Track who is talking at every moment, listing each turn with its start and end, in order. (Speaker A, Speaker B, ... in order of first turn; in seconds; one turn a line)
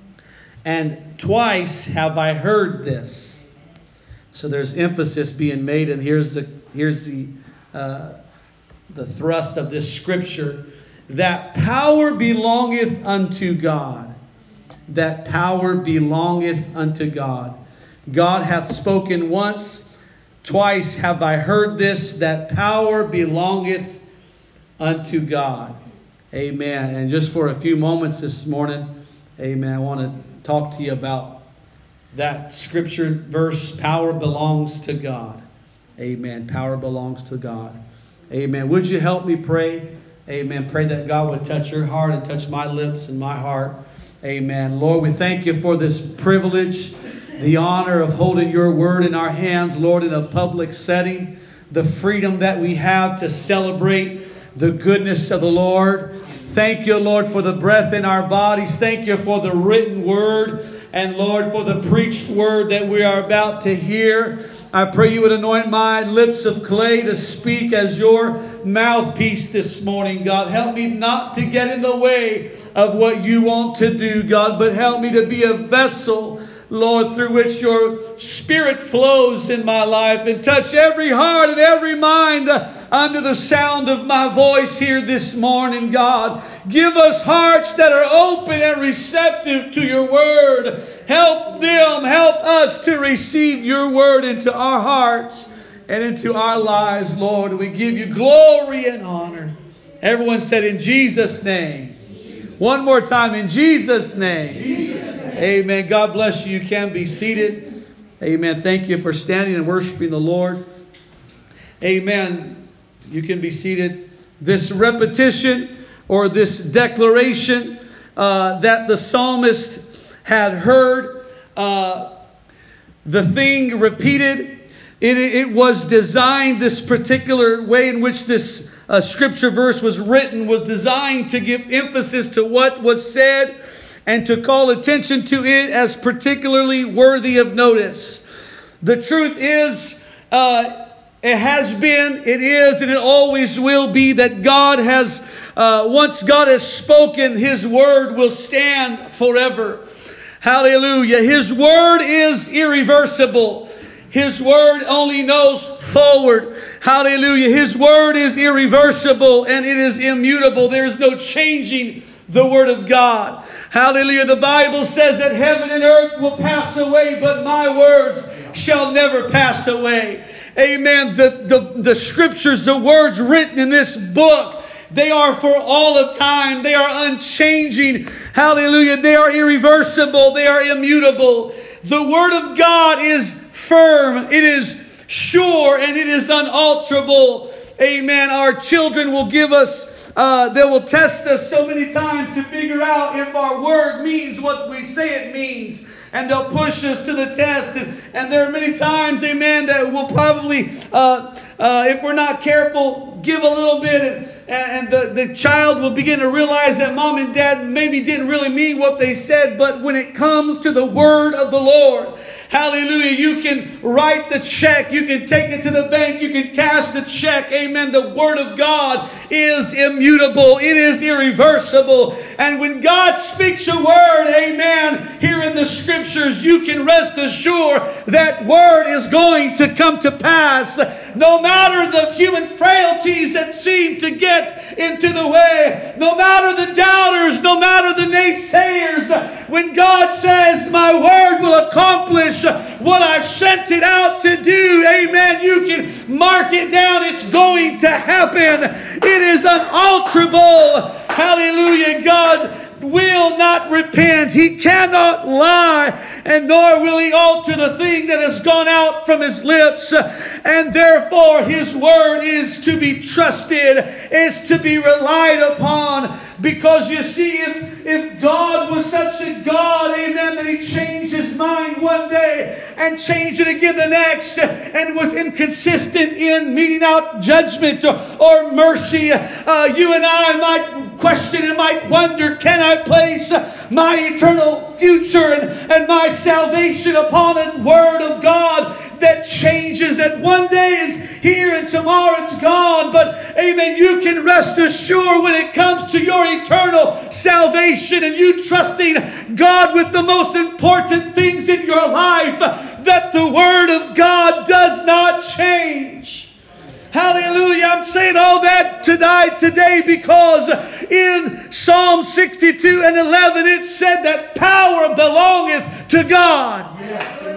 Speaker A: 0.6-3.4
Speaker A: 4.3-8.2
Speaker A: 8.9-14.1
Speaker A: 14.9-17.6
Speaker A: 18.1-19.9
Speaker A: 20.4-24.0
Speaker A: 24.8-25.8
Speaker A: 26.3-31.4
Speaker A: 32.1-35.4
Speaker A: 36.0-37.8
Speaker A: 38.3-102.0
Speaker A: 102.6-107.6
Speaker A: 108.2-110.6
Speaker A: 111.8-122.1
Speaker A: 123.0-133.5
Speaker A: 134.1-138.2
Speaker A: 138.8-149.8
Speaker A: 150.4-306.3
Speaker A: 306.9-317.1